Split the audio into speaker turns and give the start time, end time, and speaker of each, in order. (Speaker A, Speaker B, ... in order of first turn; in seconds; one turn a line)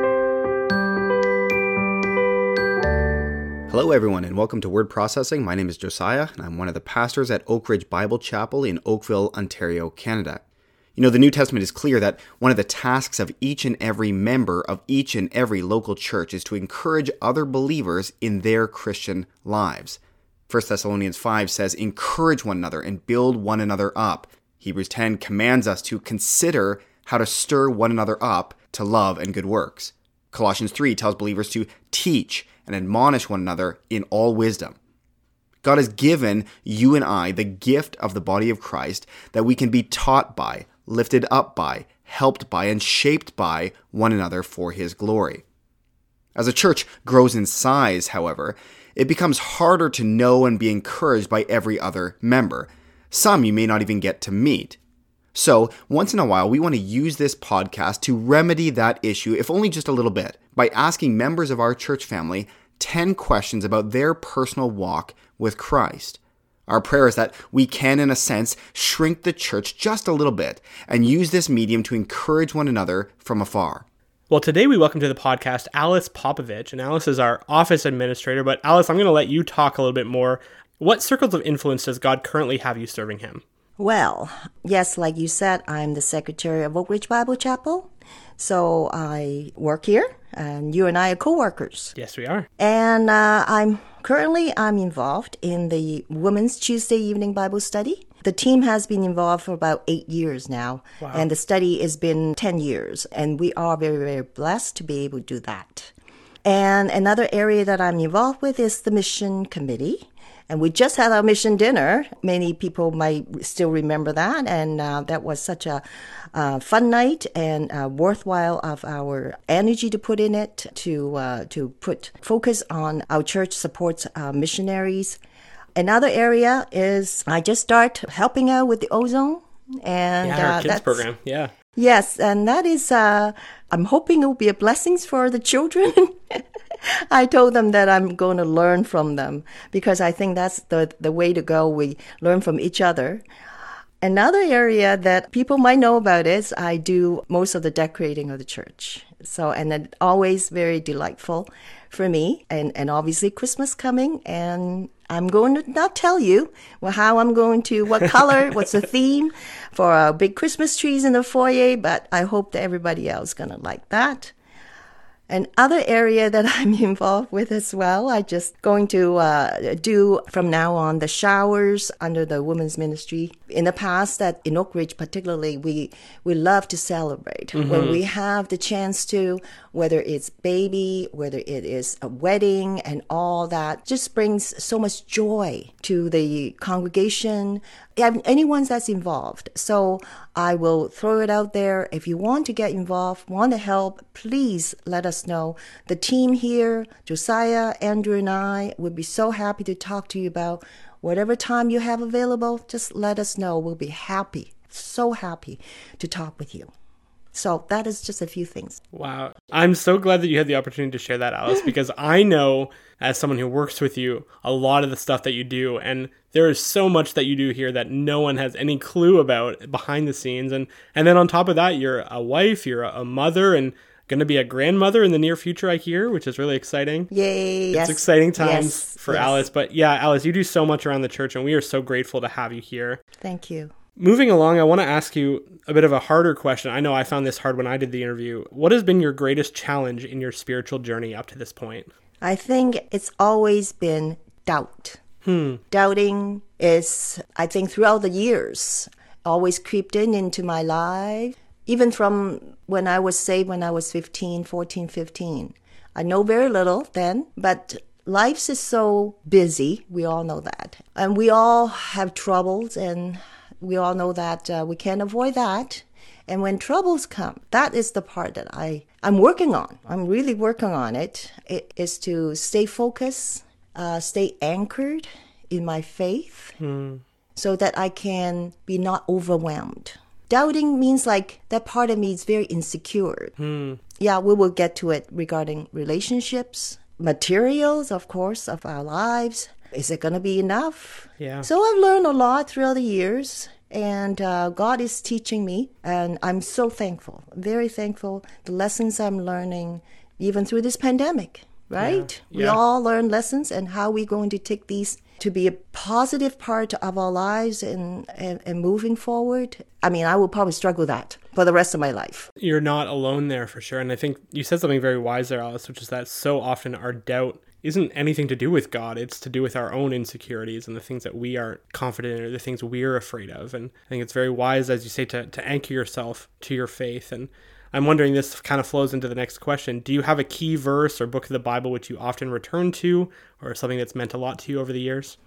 Speaker A: 3.7-10.4
Speaker A: 11.0-34.8
Speaker A: 35.6-45.4
Speaker A: 46.4-54.8
Speaker A: 55.3-73.9
Speaker B: 74.3-83.4
Speaker C: 83.8-91.9
Speaker B: 92.0-92.5
Speaker C: 92.6-105.9
Speaker B: 101.0-101.3
Speaker C: 106.5-125.2
Speaker C: 125.8-131.1
Speaker B: 130.2-131.5
Speaker C: 131.8-143.2
Speaker C: 144.0-164.3
Speaker C: 165.3-206.7
Speaker B: 177.6-178.0
Speaker C: 207.3-208.8
Speaker B: 208.9-227.1
Speaker C: 227.1-229.4
Speaker B: 227.7-233.0
Speaker C: 233.2-233.7
Speaker B: 234.0-241.9
Speaker C: 242.2-245.0
Speaker B: 245.2-245.6
Speaker C: 245.7-276.6
Speaker B: 276.6-277.0
Speaker C: 277.4-283.4
Speaker B: 283.4-283.8
Speaker C: 284.0-312.3
Speaker B: 291.2-291.5
Speaker B: 301.8-302.6
Speaker B: 312.4-335.2